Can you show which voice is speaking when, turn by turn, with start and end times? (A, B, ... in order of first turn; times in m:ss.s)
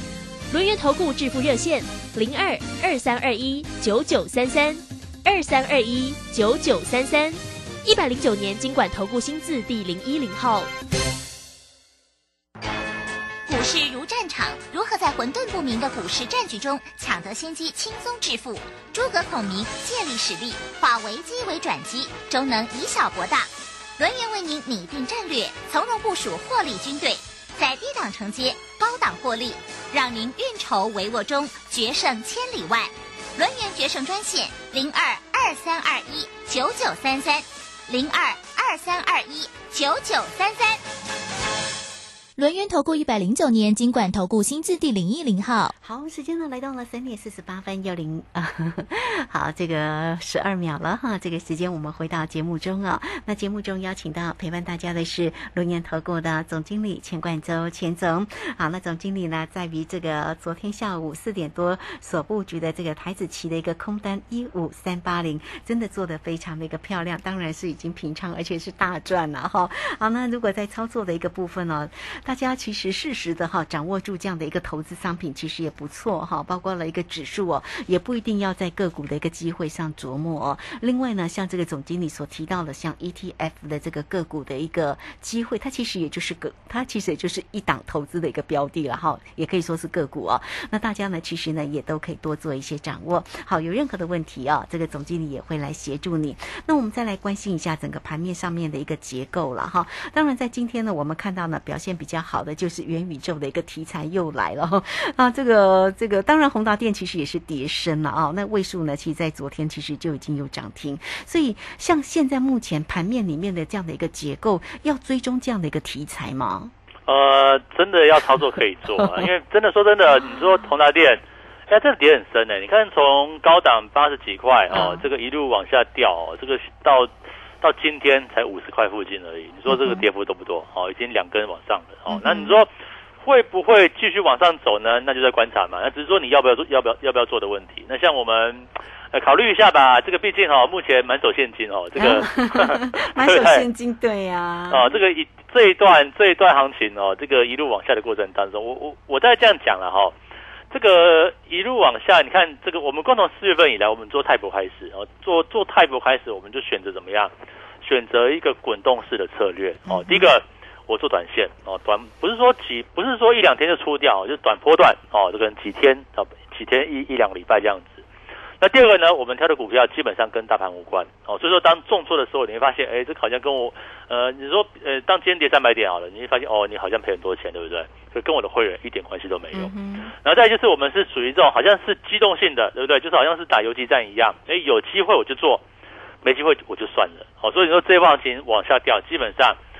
0:00.5-0:10.7 A
0:13.5-0:40.8 B
0:42.4-0:45.7 C
0:45.8-1:56.7 D
1:57.1-2:12.7 E
2:04.7-2:05.0 D
2:09.7-2:10.0 D
2:12.1-2:12.6 D
2:13.2-2:23.6 E
2:22.0-2:24.9 D
2:24.7-2:30.1 E
2:30.7-2:37.3 E
2:37.8-2:48.0 E
2:39.9-2:40.3 D
2:48.6-3:05.6 E
2:59.5-3:00.1 D
3:06.2-3:09.6 E